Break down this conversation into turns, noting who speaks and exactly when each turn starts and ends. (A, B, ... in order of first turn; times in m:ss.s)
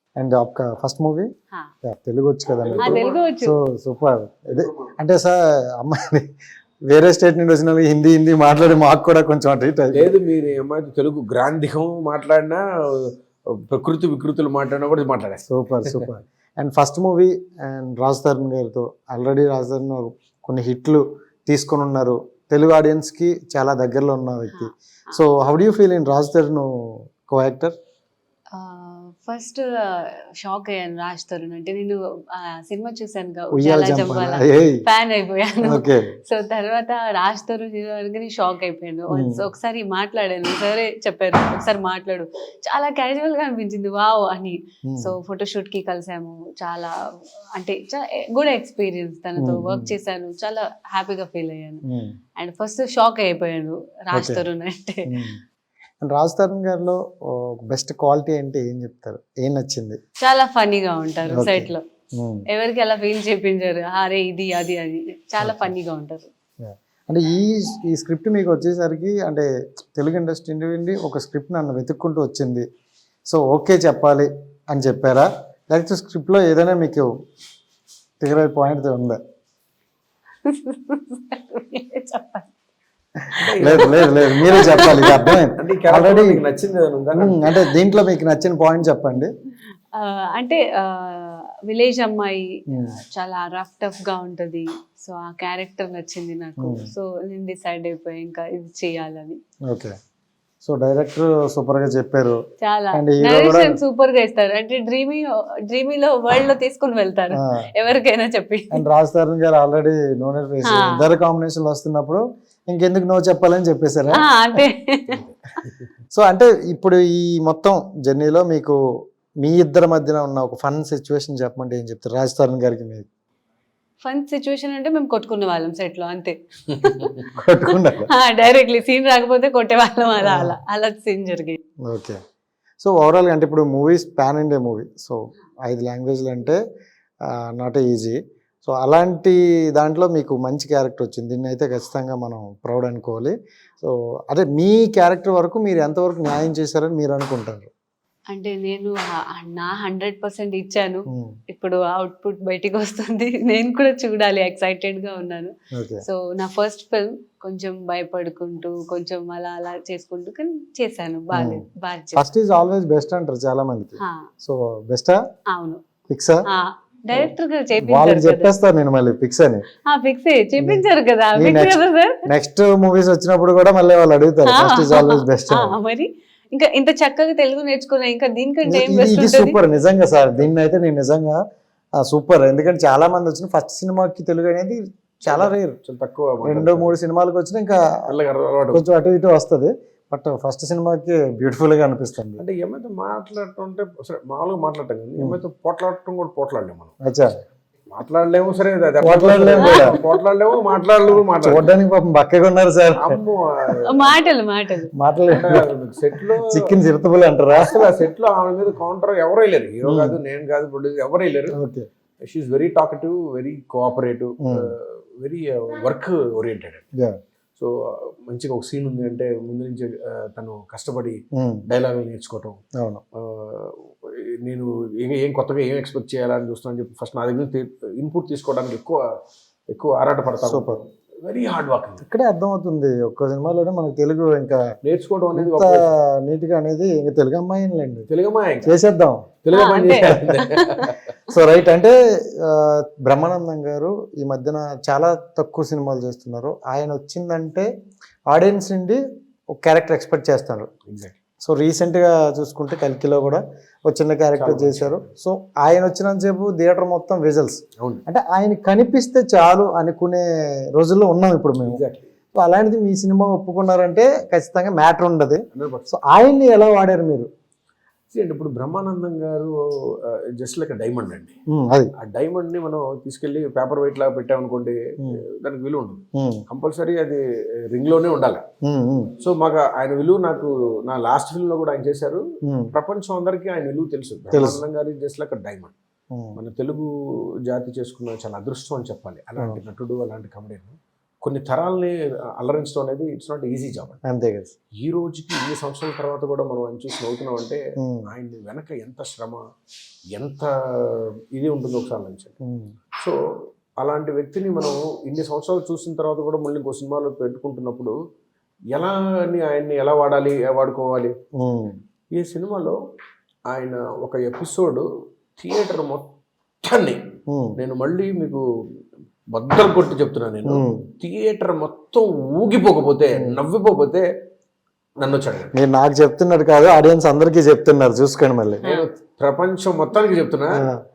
0:00.2-0:01.3 A
0:01.8-0:06.3 A
0:02.6-0:03.2 B
0:02.8-0:03.5 C
0:06.9-0:10.1 A
0:09.9-0:16.0 B
0:15.5-0:27.7 A
0:24.5-0:25.2 C
0:28.5-0:46.9 C
0:33.5-0:34.8 A
0:35.6-0:36.1 A
0:39.1-0:39.4 A
0:44.9-0:45.1 A
0:47.6-0:51.8 C
0:49.4-0:50.0 A
0:51.9-0:52.2 A
0:52.4-0:55.1 C
0:54.1-0:54.4 A
0:55.1-0:55.4 A
0:56.0-1:00.0 A
1:00.2-1:01.8 C
1:01.3-1:02.4 A
1:02.5-1:06.3 C
1:05.4-1:05.7 A
1:06.6-1:12.6 A
1:13.3-1:17.1 A
1:18.2-1:19.2 A
1:20.4-1:22.5 C
1:23.3-1:26.4 A
1:23.4-1:27.6 B
1:24.5-1:25.2 C
1:27.2-1:29.3 A
1:29.9-1:39.4 C
1:32.7-1:33.0 A
1:36.6-1:36.9 A
1:40.6-1:42.4 A
1:42.6-1:48.8 C
1:42.9-1:43.8 A
1:47.4-1:47.7 A
1:48.7-1:54.6 A
1:50.6-1:51.0 C
1:54.1-1:55.2 C
1:56.1-1:58.8 A
1:59.4-2:03.1 A
2:04.0-2:07.2 C
2:07.3-2:08.1 A
2:07.8-2:11.6 C
2:10.2-2:10.6 A
2:11.9-2:12.2 A
2:12.8-2:16.6 A
2:17.6-2:27.7 A
2:28.3-2:42.3 C
2:35.7-2:36.0 A
2:41.3-2:41.6 A
2:42.2-2:45.2 A
2:44.0-2:44.3 C
2:45.5-2:45.8 C
2:46.1-2:46.4 A
2:46.5-2:48.5 C
2:47.1-2:49.6 A
2:49.8-2:52.2 C
2:50.6-2:55.8 A
2:54.5-2:59.6 C
2:58.6-3:01.4 A
3:02.0-3:05.8 A
3:05.3-3:07.0 B
3:06.4-3:08.1 A
3:08.1-3:08.8 B
3:08.7-3:12.4 A
3:12.4-3:17.0 B
3:17.0-3:17.4 A
3:17.9-3:21.7 B
3:19.0-3:20.0 A
3:19.6-3:20.0 C
3:21.4-3:23.2 A
3:23.0-3:24.1 B
3:23.9-3:24.9 C
3:25.0-3:25.7 A
3:25.3-3:26.6 B
3:26.3-3:27.8 A
3:27.6-3:31.6 B
3:29.8-3:30.2 A
3:31.5-3:31.9 A
3:32.2-3:36.8 B
3:34.4-3:34.7 A
3:37.6-3:42.6 B
3:43.2-3:49.0 B
3:49.7-3:52.0 B
3:50.4-3:50.8 A
3:52.0-3:54.6 A
3:54.8-3:55.9 B
3:55.4-3:58.1 A
3:58.1-3:58.8 B
3:58.6-3:59.3 A
3:59.4-4:01.0 B
3:59.5-4:01.0 C
4:00.0-4:00.3 A
4:01.3-4:07.7 A
4:08.3-4:09.0 A
4:09.6-4:10.7 A
4:10.9-4:11.2 B
4:11.4-4:21.8 A
4:14.4-4:15.0 B
4:21.7-4:22.1 B
4:22.4-4:27.3 A
4:25.5-4:25.9 B
4:28.1-4:31.4 B
4:31.5-4:31.9 A
4:32.0-4:37.2 B
4:36.2-4:36.4 A
4:37.7-4:38.4 B
4:38.6-4:39.1 A
4:39.2-4:42.2 B
4:42.7-4:45.8 B
4:44.3-4:44.6 A
4:46.1-4:46.4 A
4:46.4-4:46.9 B
4:47.5-4:54.0 B
4:54.0-4:54.5 A
4:54.8-4:59.4 B
4:57.8-4:58.1 A
5:00.2-5:02.4 B
5:02.4-5:02.7 A
5:03.8-5:07.9 B
5:08.7-5:11.1 B
5:11.4-5:11.8 A
5:12.2-5:12.8 B
5:13.5-5:14.8 B
5:15.4-5:16.1 B
5:16.6-5:17.0 B
5:17.3-5:17.6 A
5:17.6-5:18.4 B
5:19.3-5:24.1 B
5:20.4-5:20.8 A
5:25.0-5:25.5 B
5:25.5-5:28.6 A
5:28.6-5:30.6 B